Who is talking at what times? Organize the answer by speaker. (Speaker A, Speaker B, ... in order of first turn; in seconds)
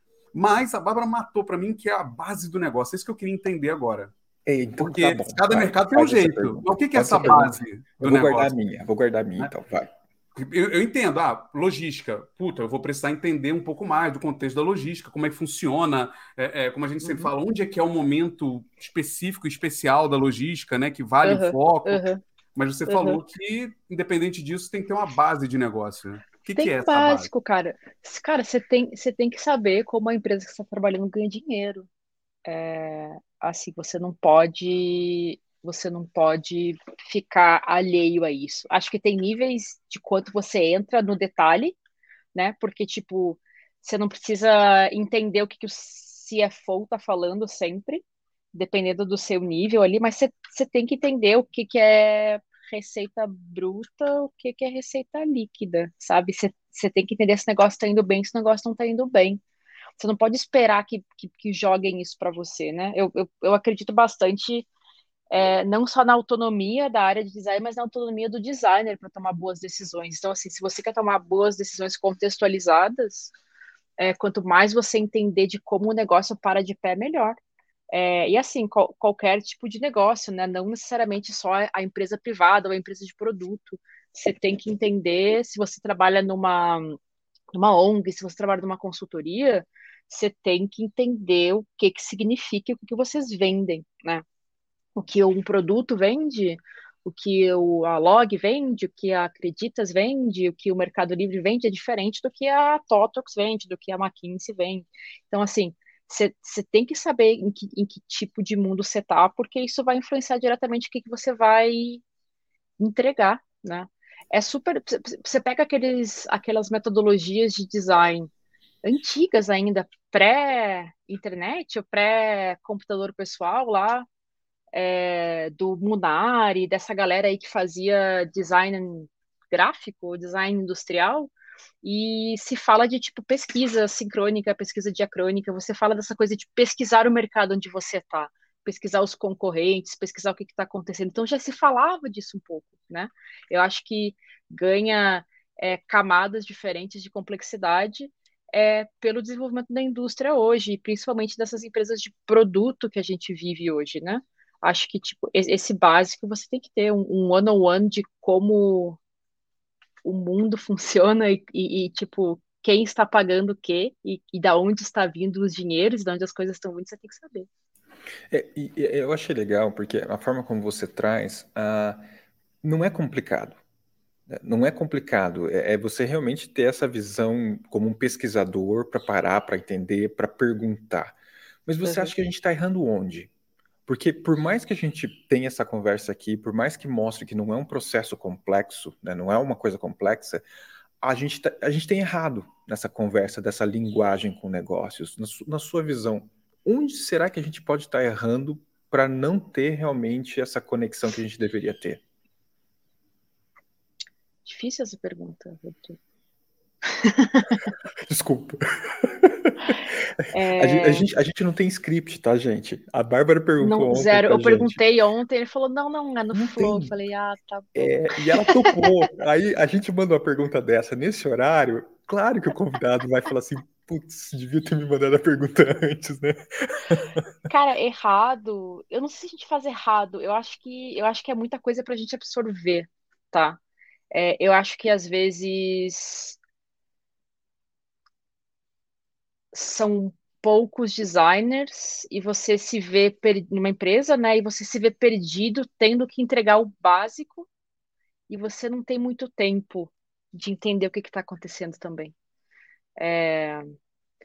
Speaker A: 0.3-4.1, 4.8-8.5, 10.3-22.0, 22.5-27.3
Speaker B: 4.5-9.9, 168.3-172.0, 172.6-173.6, 174.3-181.1, 181.7-183.3, 183.9-190.4, 191.0-202.0, 208.0-210.0, 210.5-214.8, 216.3-216.9, 217.7-227.2
Speaker C: 17.0-17.3, 21.2-22.2, 22.9-23.2, 26.6-31.9, 32.4-41.8, 42.3-59.4, 60.0-64.7, 65.3-73.3, 74.0-77.3, 77.9-87.0, 87.5-94.2, 95.0-112.0, 112.8-118.3, 118.8-124.1, 124.7-131.3, 131.8-159.0, 160.0-167.5, 181.8-182.1, 204.4-206.0, 206.9-207.7, 210.3-211.0, 213.6-218.9, 227.5-233.6, 234.1-236.4, 239.5-247.5, 248.3-252.1, 253.0-253.6